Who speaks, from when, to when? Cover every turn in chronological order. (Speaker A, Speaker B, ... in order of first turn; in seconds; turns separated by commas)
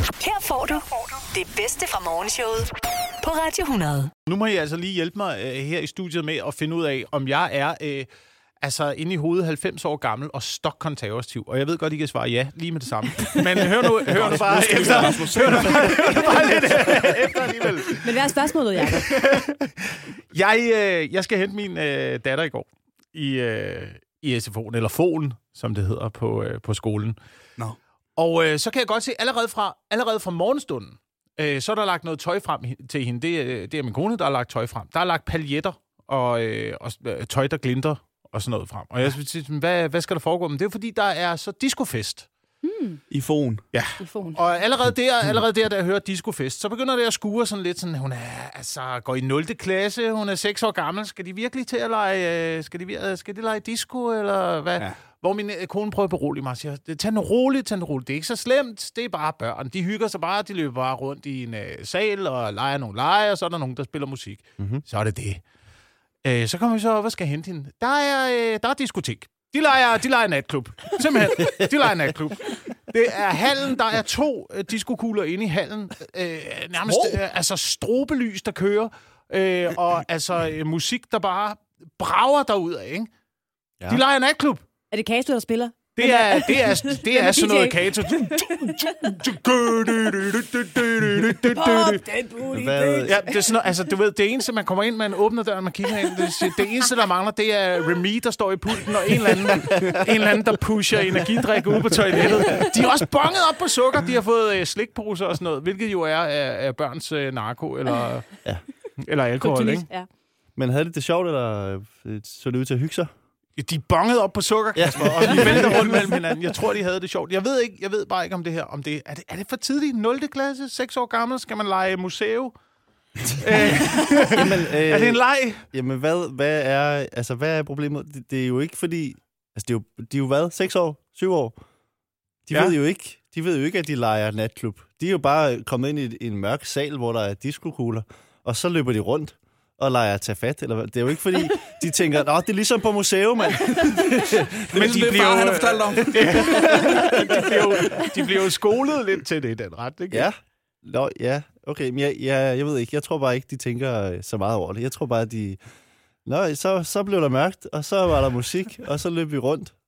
Speaker A: 0.2-4.1, Speaker B: 4.3-8.1, Speaker B: 8.6-18.1, Speaker C: 13.9-17.6, Speaker D: 18.0-19.1, Speaker B: 19.0-27.2, Speaker B: 28.2-42.3, Speaker D: 42.6-43.0, Speaker C: 43.1-43.6, Speaker B: 43.7-65.4, Speaker D: 44.0-44.4, Speaker B: 66.2-83.1, Speaker C: 76.9-77.2, Speaker B: 83.9-84.6, Speaker D: 84.9-88.8, Speaker B: 86.0-92.0, Speaker D: 91.5-93.1, Speaker E: 92.5-93.3, Speaker B: 93.1-108.3, Speaker E: 99.7-100.0, Speaker E: 102.2-102.7, Speaker B: 109.0-109.9, Speaker D: 109.4-110.1, Speaker E: 110.6-113.1, Speaker B: 113.6-122.5, Speaker E: 114.8-116.2, Speaker B: 123.3-125.7, Speaker E: 123.7-125.2, Speaker E: 125.7-131.6, Speaker E: 132.5-144.7, Speaker B: 144.6-150.3, Speaker C: 144.6-148.1, Speaker E: 146.6-147.3, Speaker E: 150.1-155.6, Speaker E: 156.2-159.7